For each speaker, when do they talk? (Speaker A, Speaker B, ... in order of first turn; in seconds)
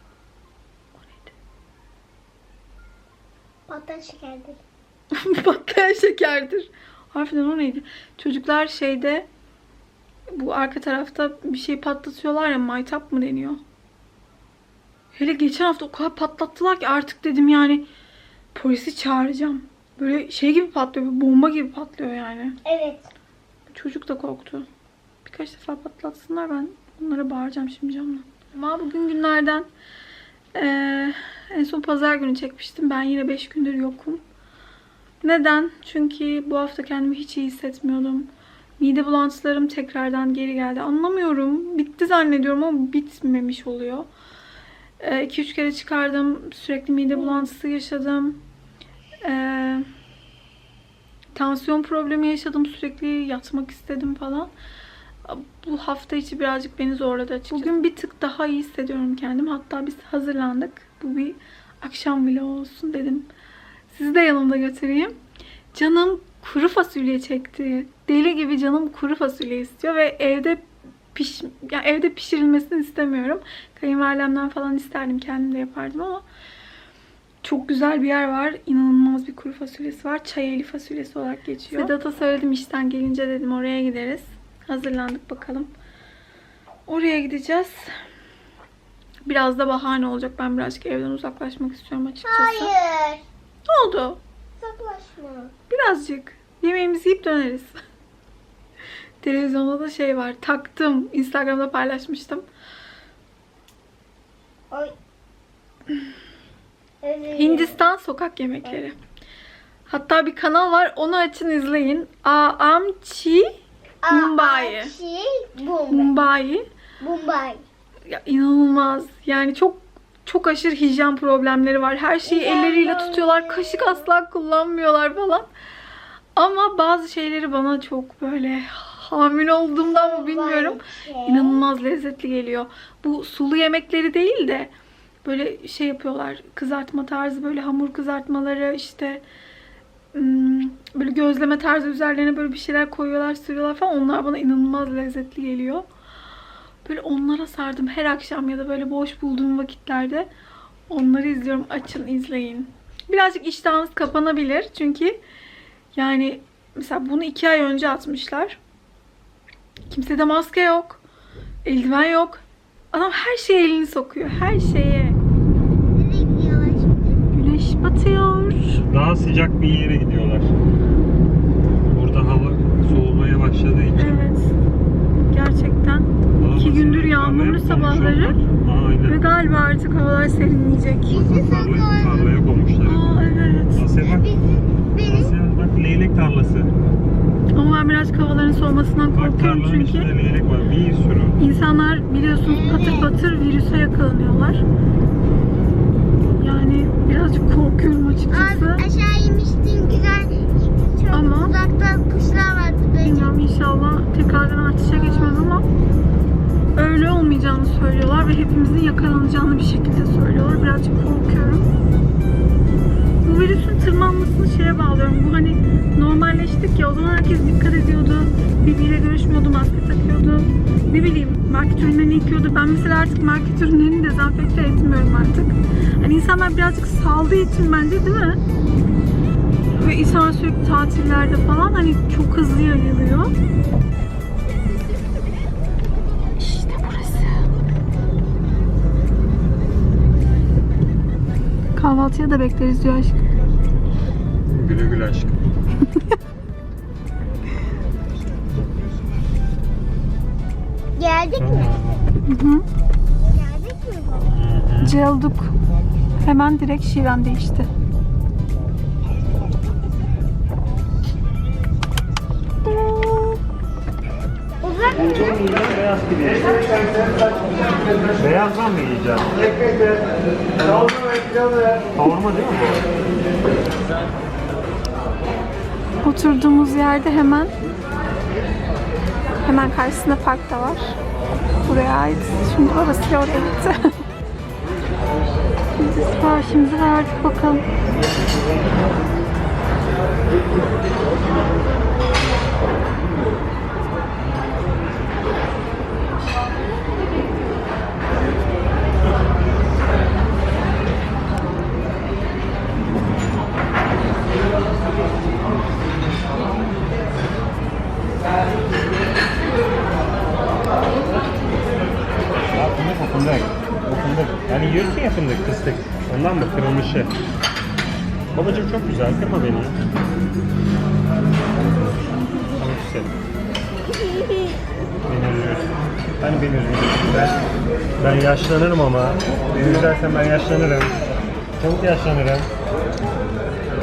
Speaker A: 1.0-1.3, 5.1-9.3, 10.3-13.6, 15.2-17.9, 18.5-22.6, 23.7-24.7, 25.2-29.7, 30.5-34.2, 35.2-44.1, 45.0-48.4, 49.2-49.9, 51.4-54.5, 55.2-63.3, 63.9-65.2, 65.7-76.2, 77.4-85.7, 86.9-87.9, 89.2-92.7, 93.7-94.2, 95.7-97.8, 99.2-102.4, 107.3-109.0, 109.9-113.5, 114.1-114.9, 115.9-116.7, 118.1-125.5, 126.4-134.7, 135.2-139.2, 140.1-145.9, 146.8-150.3, 150.9-155.2, 155.9-158.6, 159.9-161.0, 161.7-165.2, 167.3-168.8, 174.0-174.6, 175.3-178.4, 179.0-181.3, 182.8-183.8, 187.6-190.1, 191.4-194.6, 196.3-198.8, 201.1-201.6, 203.0-205.7, 206.8-211.7, 213.2-228.4, 229.8-233.3, 236.4-237.5, 241.8-243.2, 252.2-252.7, 254.8-255.6, 256.2-257.7, 262.6-263.4, 276.0-277.5, 279.4-281.0, 281.6-284.0, 285.8-287.6
Speaker B: 3.7-4.6, 22.6-23.1, 92.2-93.2, 94.6-95.5, 107.0-107.8, 114.0-116.2, 117.0-117.6, 122.2-124.0, 129.8-131.6, 165.9-167.2, 181.1-182.3, 184.0-185.3, 192.5-193.1, 198.3-203.4, 251.0-251.7, 253.3-254.3, 264.6-265.4, 324.0-324.5
Speaker C: 168.9-170.6, 171.9-174.2, 176.4-179.2, 181.1-183.1, 183.7-184.3, 185.0-186.7, 189.1-191.4, 244.5-245.5, 251.3-252.2, 254.2-255.0, 265.0-266.8, 268.1-269.5, 270.7-271.2, 271.9-272.9, 312.5-317.1, 318.4-319.8, 322.5-323.1, 325.1-327.4, 328.0-331.0, 331.6-332.5